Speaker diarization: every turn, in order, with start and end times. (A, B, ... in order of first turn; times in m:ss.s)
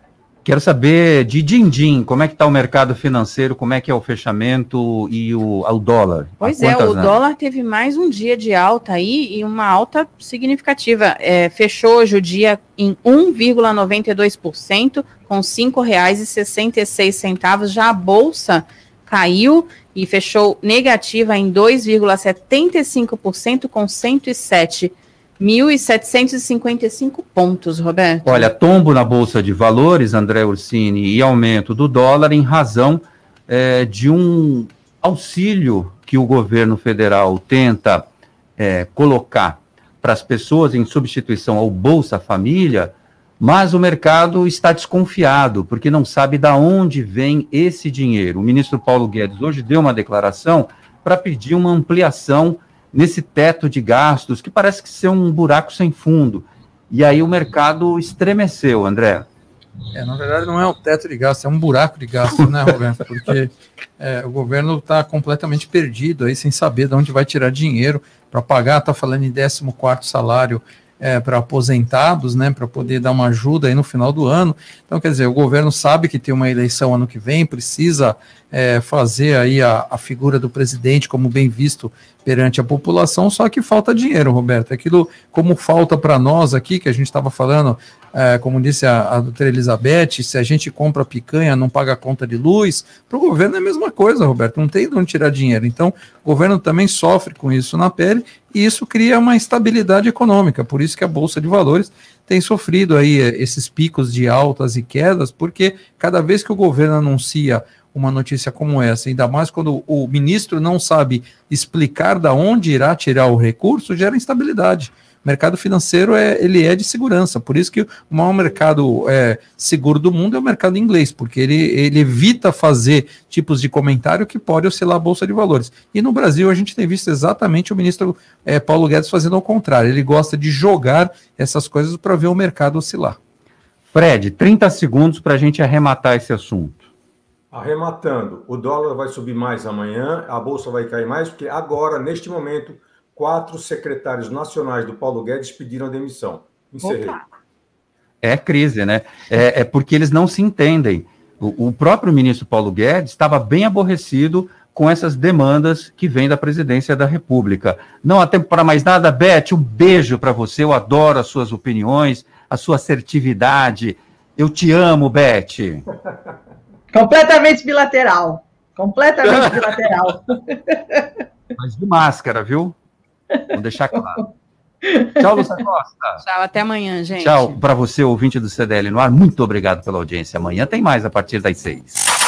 0:00.4-0:07.2 A
0:06.4-0:28.5 B
0:28.2-0:59.3 A
0:59.9-2:13.2 C
2:13.9-2:16.9 A
2:17.5-2:27.2 D
2:28.2-2:45.8 A
2:46.9-2:51.1 E
2:51.6-2:52.8 A
2:53.5-2:54.2 A
2:54.9-2:55.1 E
2:55.2-2:56.2 A
2:56.2-2:57.6 B
2:57.2-3:02.0 A